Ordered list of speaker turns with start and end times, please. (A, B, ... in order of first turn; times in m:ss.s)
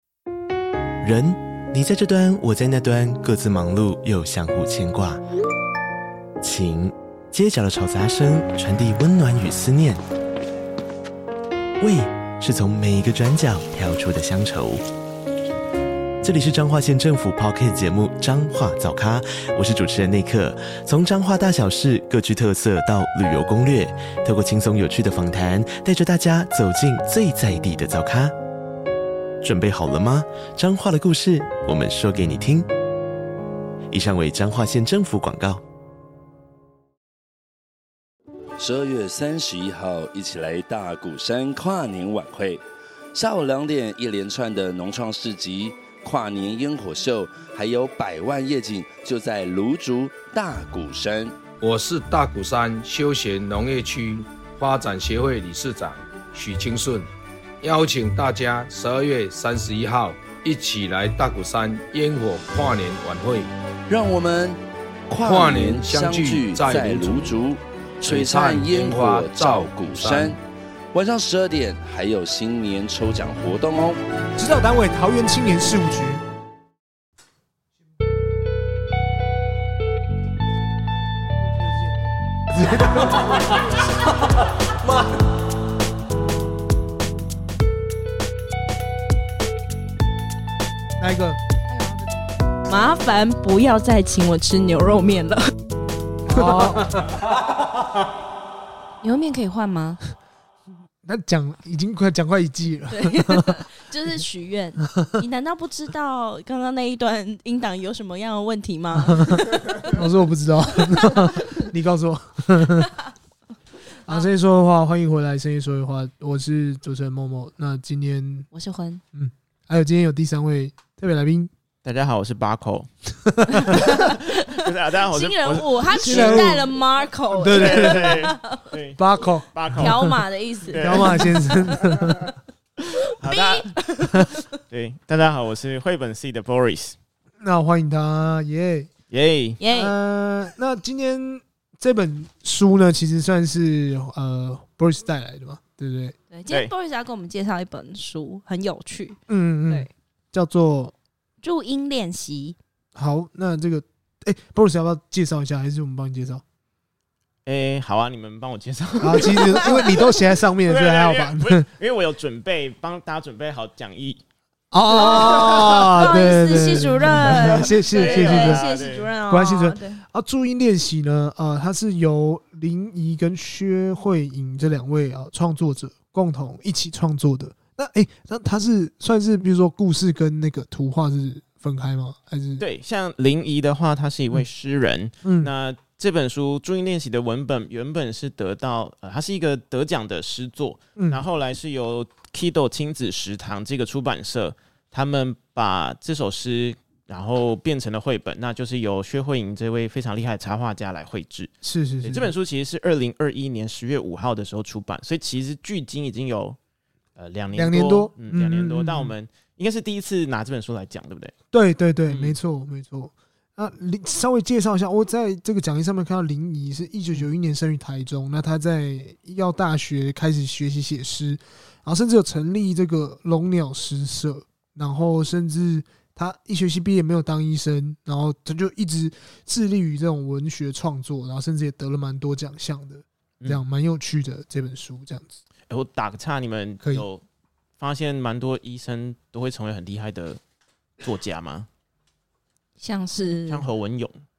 0:01.0-0:05.2 A
0:06.4-0:10.0 A
0:11.8-0:14.8 A
0:16.2-0:28.3 A
0:29.4-0:32.7 A
0:33.9-0:35.6 A
0:38.6-0:42.6 B
0:43.1-0:51.4 B
0:51.6-0:57.1 C
0:57.6-1:03.5 C
1:03.9-1:10.4 B
1:05.2-1:07.4 C
1:08.0-1:10.4 C
1:10.9-1:14.0 B
1:14.4-1:16.2 D
1:21.4-1:23.4 D
1:31.0-1:31.4 D
1:32.6-1:35.5 E
1:36.2-1:36.9 D
1:39.0-1:40.0 E
1:41.0-1:43.6 D
1:42.9-1:49.9 E
1:49.0-1:52.9 D
1:51.0-1:51.3 E
1:54.1-1:58.5 D
1:58.5-1:59.0 E
1:59.1-2:01.5 D
2:01.8-2:02.9 F
2:03.2-2:03.8 D
2:03.5-2:08.6 E
2:03.7-2:06.6 F
2:06.0-2:06.7 D
2:07.4-2:08.3 D
2:07.4-2:10.1 F
2:09.0-2:10.1 D
2:09.8-2:12.0 E
2:10.7-2:12.2 F
2:10.7-2:12.2 D
2:12.9-2:14.4 E
2:13.2-2:13.8 F
2:14.6-2:17.0 F
2:17.4-2:18.9 D
2:19.1-2:19.6 F
2:19.6-2:19.9 E
2:19.7-2:26.1 D
2:26.3-2:29.9 E
2:29.3-2:30.9 D
2:31.4-2:32.6 E
2:32.9-2:36.4 D
2:37.4-2:44.2 F
2:39.0-2:41.7 D
2:39.3-2:39.6 E
2:44.7-2:48.6 D
2:45.0-2:46.1 F
2:45.0-2:50.0 E
2:47.2-2:49.1 F
2:49.3-3:02.6 D
3:02.6-3:21.5 F
3:05.2-3:05.5 D
3:11.0-3:11.2 D
3:21.6-3:22.3 D
3:22.0-3:26.6 F
3:27.2-3:31.3 F
3:27.5-3:29.1 D
3:31.5-3:55.4 D
3:32.1-3:32.4 F
3:55.7-3:57.2 F
3:57.8-4:00.4 F
4:01.0-4:01.7 F
4:02.8-4:03.6 E
4:03.5-4:04.2 F